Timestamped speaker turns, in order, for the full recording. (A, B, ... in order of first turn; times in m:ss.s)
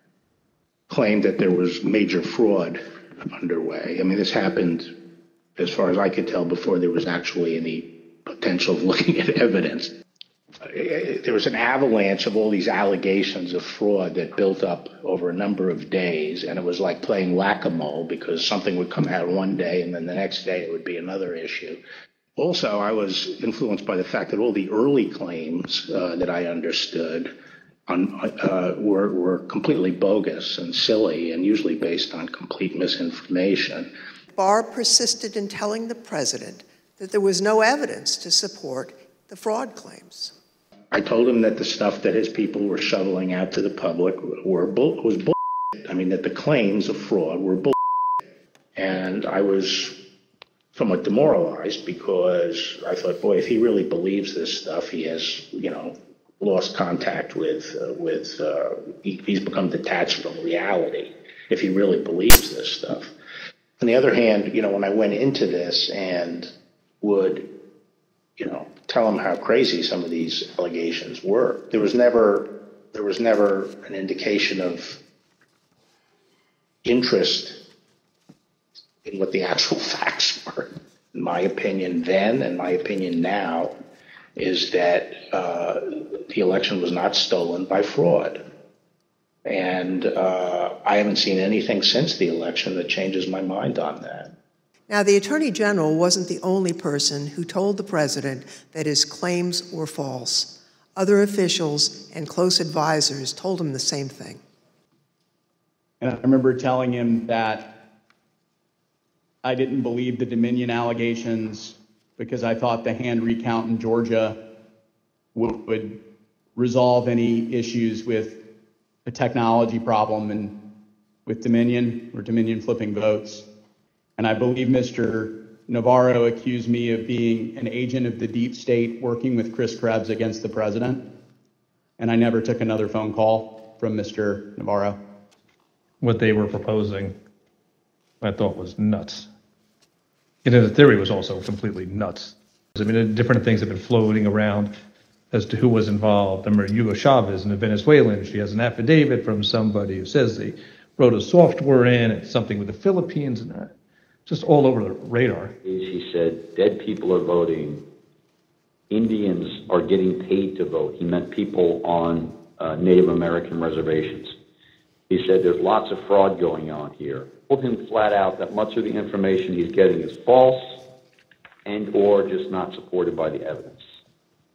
0:00.9-0:02.8 A
0:03.3-0:04.9 A
0:05.6-0:09.9 A
0:10.6-0:21.8 A
0:22.4-0:27.3 A
0:27.9-0:33.9 A
0:34.3-0:40.3 B
0:40.9-0:45.3 A
0:45.9-0:47.7 A
0:48.7-0:50.0 A
0:50.7-1:03.1 A
1:03.8-1:07.5 A
1:08.4-1:15.0 A
1:16.8-1:17.6 A
1:19.0-1:23.7 A
1:24.4-1:28.4 A
1:29.4-1:34.3 A
1:34.9-1:44.4 B
1:46.0-1:47.7 C
1:49.4-1:54.4 C
1:55.3-1:56.0 C
1:56.5-1:58.4 C
1:59.0-2:00.6 C
2:01.2-2:03.4 C
2:04.2-2:11.0 C
2:12.0-2:15.0 C
2:16.0-2:17.1 D
2:18.2-2:19.3 D
2:20.4-2:24.7 D
2:25.3-2:33.7 D
2:34.2-2:35.5 D
2:35.6-2:37.8 E
2:38.9-2:44.3 E
2:45.1-2:50.8 E
2:51.6-2:53.8 E